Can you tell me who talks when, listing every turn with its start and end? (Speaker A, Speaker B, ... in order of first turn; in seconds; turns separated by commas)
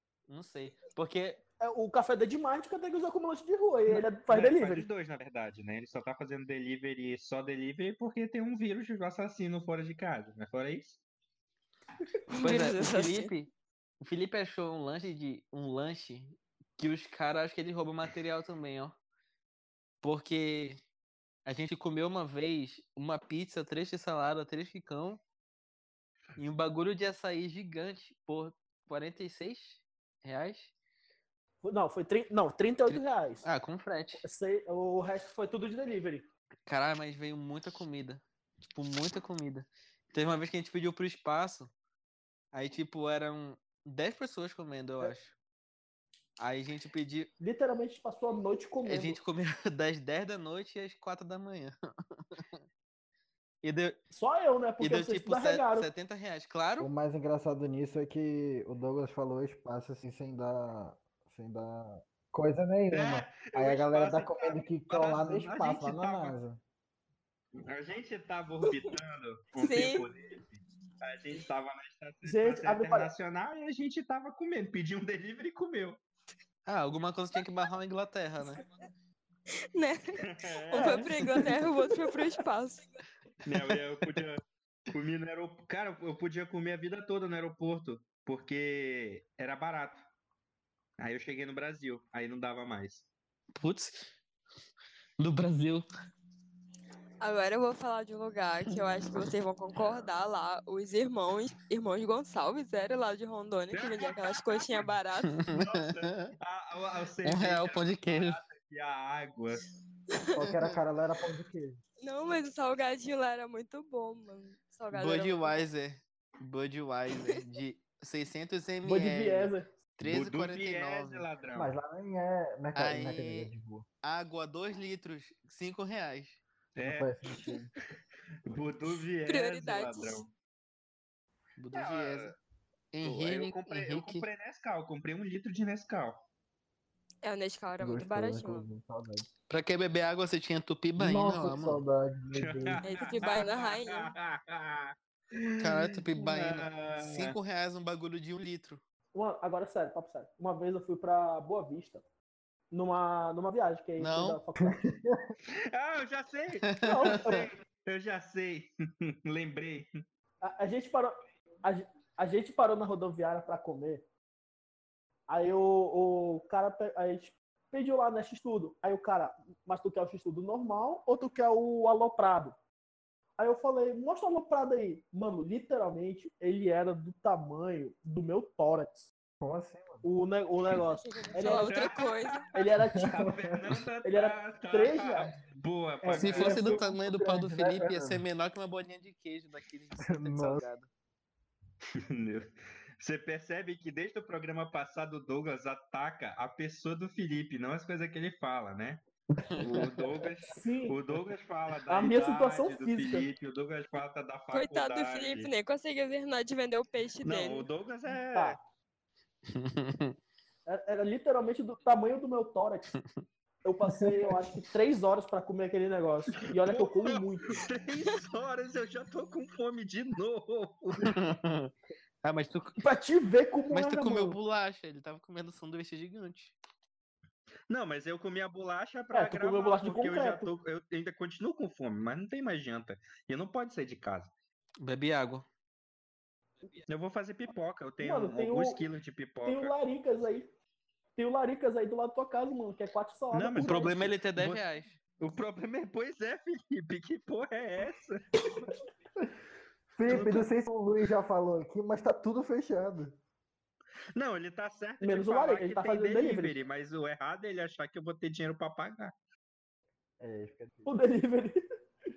Speaker A: 0.3-1.4, Speaker B: 1.6-4.9, Speaker C: 3.9-11.0, Speaker D: 12.3-13.3, Speaker A: 12.4-13.5, Speaker A: 14.0-19.0, Speaker A: 20.0-20.8, Speaker A: 21.5-25.2, Speaker A: 26.4-30.7, Speaker B: 31.6-33.5, Speaker A: 32.9-34.2, Speaker B: 34.2-36.3, Speaker A: 36.7-41.7, Speaker A: 42.5-45.4, Speaker A: 46.4-47.3, Speaker B: 47.4-49.2, Speaker A: 48.9-52.6, Speaker A: 53.6-54.0, Speaker B: 54.1-55.9, Speaker A: 54.8-56.9, Speaker E: 56.8-66.6, Speaker C: 62.9-66.4, Speaker C: 67.7-76.0, Speaker D: 69.6-70.1, Speaker B: 72.2-73.1, Speaker A: 76.7-78.6, Speaker D: 79.8-82.9, Speaker C: 80.3-81.2, Speaker B: 80.7-81.3, Speaker C: 83.5-90.0, Speaker C: 91.0-93.1, Speaker A: 93.6-94.1, Speaker A: 95.2-95.9, Speaker D: 97.2-105.4, Speaker C: 103.7-105.0, Speaker A: 105.3-106.3, Speaker C: 105.5-109.6, Speaker A: 107.2-108.4, Speaker D: 110.1-110.5, Speaker E: 110.4-111.8, Speaker D: 112.0-115.6, Speaker A: 114.9-121.3, Speaker B: 118.9-119.7, Speaker C: 120.0-121.7, Speaker E: 121.5-123.9, Speaker A: 122.8-123.5, Speaker A: 124.0-126.4, Speaker C: 126.8-127.1, Speaker E: 126.8-127.7, Speaker C: 128.4-130.3, Speaker D: 129.2-130.3, Speaker A: 131.6-132.4, Speaker C: 131.7-132.3, Speaker A: 132.9-134.3, Speaker C: 133.0-136.2, Speaker D: 137.2-138.7, Speaker E: 137.8-139.3, Speaker A: 139.5-141.8, Speaker E: 141.0-142.8, Speaker C: 142.4-147.3, Speaker D: 142.8-144.1, Speaker A: 145.6-148.8, Speaker B: 149.1-152.0, Speaker B: 152.7-155.0, Speaker A: 154.0-154.4, Speaker E: 154.6-155.3, Speaker C: 155.7-159.9, Speaker A: 156.6-157.4, Speaker B: 156.8-157.5, Speaker B: 160.4-164.0, Speaker B: 165.3-172.6, Speaker B: 173.4-179.1, Speaker E: 179.4-180.1, Speaker B: 180.0-181.9, Speaker D: 181.0-182.5, Speaker C: 181.6-186.8, Speaker B: 182.5-183.2, Speaker E: 182.9-183.8, Speaker B: 184.0-186.4, Speaker A: 186.2-190.9, Speaker E: 186.2-188.2, Speaker E: 190.1-190.7, Speaker C: 192.0-199.0, Speaker A: 199.6-200.0, Speaker C: 199.6-205.5, Speaker B: 200.5-201.0, Speaker B: 201.9-203.3, Speaker D: 204.5-207.7, Speaker C: 207.2-208.6, Speaker A: 209.5-210.2, Speaker B: 210.7-212.9, Speaker B: 213.7-217.6, Speaker C: 216.6-221.2, Speaker A: 221.0-221.7, Speaker A: 222.2-222.8, Speaker B: 222.8-224.4, Speaker A: 223.7-226.6, Speaker C: 227.7-234.3, Speaker B: 229.1-230.5, Speaker A: 234.8-235.5, Speaker C: 236.9-239.7, Speaker B: 238.0-238.8, Speaker B: 239.4-240.5, Speaker B: 241.2-244.0, Speaker C: 243.3-244.6, Speaker A: 243.7-245.0, Speaker C: 245.2-248.2, Speaker E: 250.0-253.2, Speaker C: 250.1-250.4, Speaker C: 254.2-259.1, Speaker B: 255.0-256.6, Speaker E: 260.2-261.0, Speaker B: 260.9-261.6